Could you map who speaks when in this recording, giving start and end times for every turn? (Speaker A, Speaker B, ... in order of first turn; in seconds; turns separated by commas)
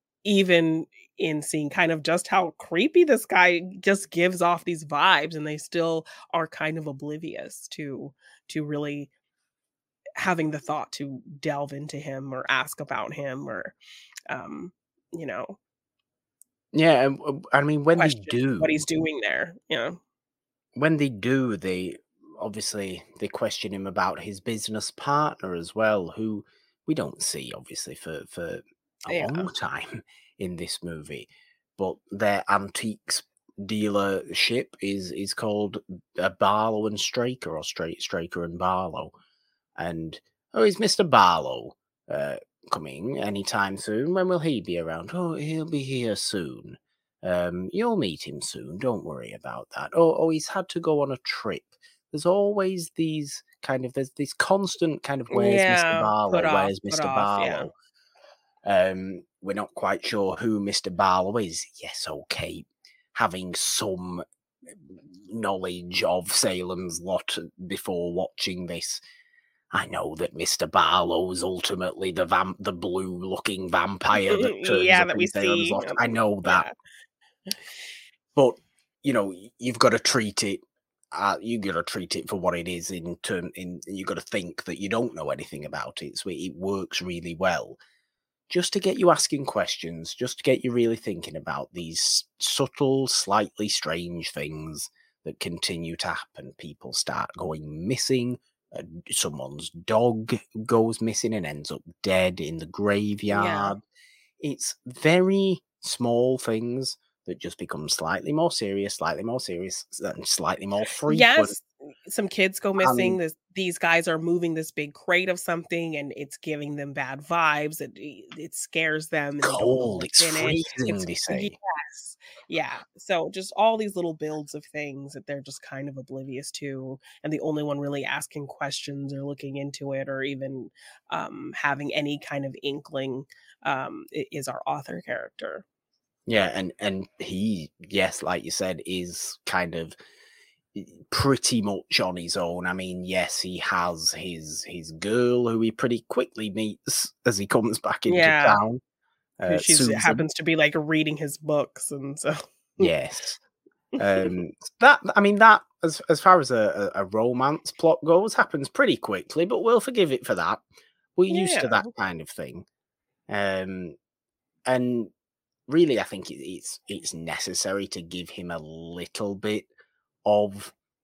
Speaker A: 0.2-9.1, Speaker A: 10.2-13.8, Speaker A: 14.3-15.6, Speaker B: 16.7-18.9, Speaker A: 18.0-20.0, Speaker B: 20.8-39.1, Speaker A: 29.1-29.5, Speaker B: 39.8-57.7, Speaker A: 55.3-57.7, Speaker B: 58.6-69.0, Speaker B: 69.7-76.7, Speaker A: 74.2-76.7, Speaker B: 78.3-80.6, Speaker B: 81.1-87.8, Speaker B: 88.5-103.8, Speaker A: 103.3-103.8, Speaker B: 104.4-111.5, Speaker A: 111.1-135.7, Speaker B: 112.8-113.2, Speaker B: 119.4-121.5, Speaker B: 136.3-139.9, Speaker B: 140.7-148.8, Speaker A: 148.1-148.6, Speaker B: 149.4-150.2, Speaker A: 149.5-152.9, Speaker B: 152.8-153.4, Speaker B: 154.0-160.6, Speaker B: 161.2-162.7, Speaker A: 161.3-161.9, Speaker B: 163.3-164.0, Speaker B: 164.7-165.1, Speaker B: 165.7-169.7, Speaker B: 170.2-170.7